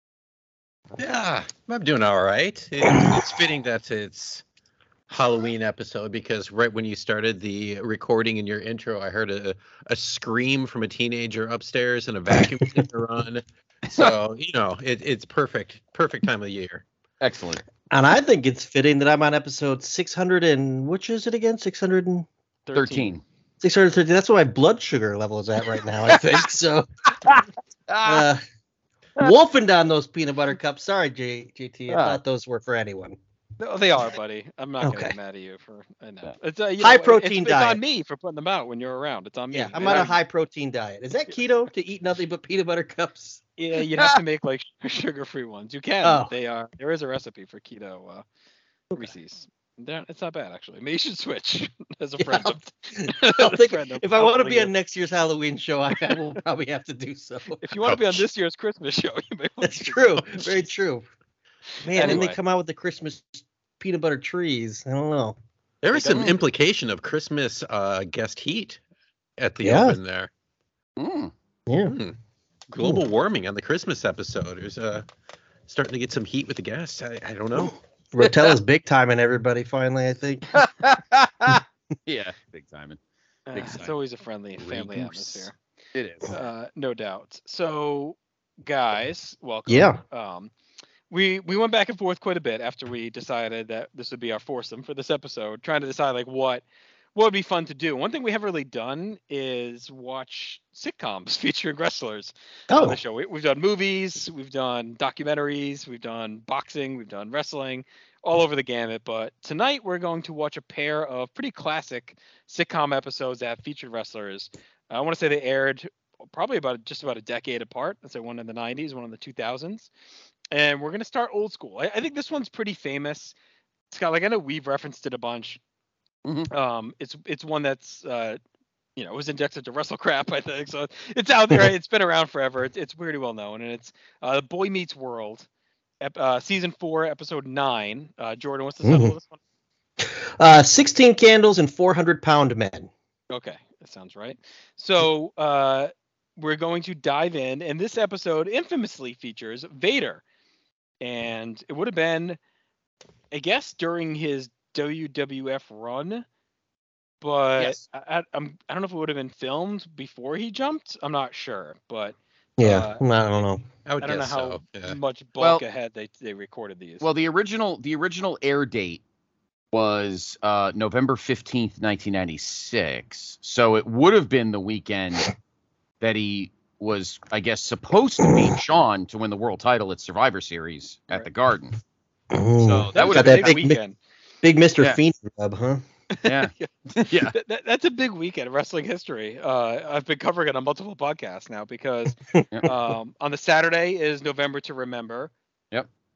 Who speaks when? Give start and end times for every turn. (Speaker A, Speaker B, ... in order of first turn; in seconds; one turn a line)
Speaker A: 1.0-4.4
Speaker A: 5.1-16.8
Speaker B: 17.2-17.6
Speaker C: 17.9-22.3
Speaker D: 22.7-23.2
Speaker B: 22.7-23.2
Speaker C: 23.6-27.4
Speaker B: 26.1-26.4
Speaker B: 27.2-28.3
Speaker C: 28.0-28.4
Speaker C: 29.2-33.2
Speaker B: 31.9-32.2
Speaker D: 33.6-40.1
Speaker C: 34.8-35.2
Speaker C: 36.8-37.8
Speaker C: 39.5-43.4
Speaker D: 43.6-48.2
Speaker C: 46.0-46.3
Speaker D: 48.9-54.7
Speaker C: 52.2-57.8
Speaker D: 57.6-60.2
Speaker C: 59.6-61.0
Speaker A: 60.2-60.5
Speaker C: 61.8-65.4
Speaker D: 61.9-62.4
Speaker A: 65.8-68.8
Speaker B: 66.1-66.3
Speaker A: 69.4-70.3
Speaker C: 69.6-70.0
Speaker B: 71.0-71.3
Speaker C: 71.7-72.0
Speaker A: 71.8-72.1
Speaker A: 72.7-75.0
Speaker A: 75.7-77.8
Speaker C: 78.1-80.5
Speaker B: 80.5-83.0
Speaker D: 83.5-85.5
Speaker B: 83.5-83.9
Speaker B: 84.6-86.3
Speaker D: 86.3-90.5
Speaker C: 89.7-90.0
Speaker D: 91.1-96.6
Speaker D: 97.1-119.9
Speaker C: 102.7-103.0
Speaker D: 120.5-123.3
Speaker D: 123.9-125.6
Speaker D: 126.5-128.4
Speaker D: 129.0-135.4
Speaker D: 136.0-139.4
Speaker C: 138.8-139.1
Speaker C: 140.0-142.9
Speaker D: 143.3-150.2
Speaker D: 151.0-152.4
Speaker D: 153.3-156.2
Speaker D: 157.2-163.0
Speaker B: 157.6-157.8
Speaker C: 162.6-163.6
Speaker A: 163.8-165.0
Speaker D: 164.0-167.1
Speaker B: 167.0-169.0
Speaker B: 169.7-175.3
Speaker B: 176.0-181.8
Speaker C: 182.3-183.8
Speaker B: 182.6-183.6
Speaker D: 182.9-184.0
Speaker C: 184.4-185.8
Speaker D: 186.2-186.7
Speaker B: 186.2-187.3
Speaker D: 187.3-195.3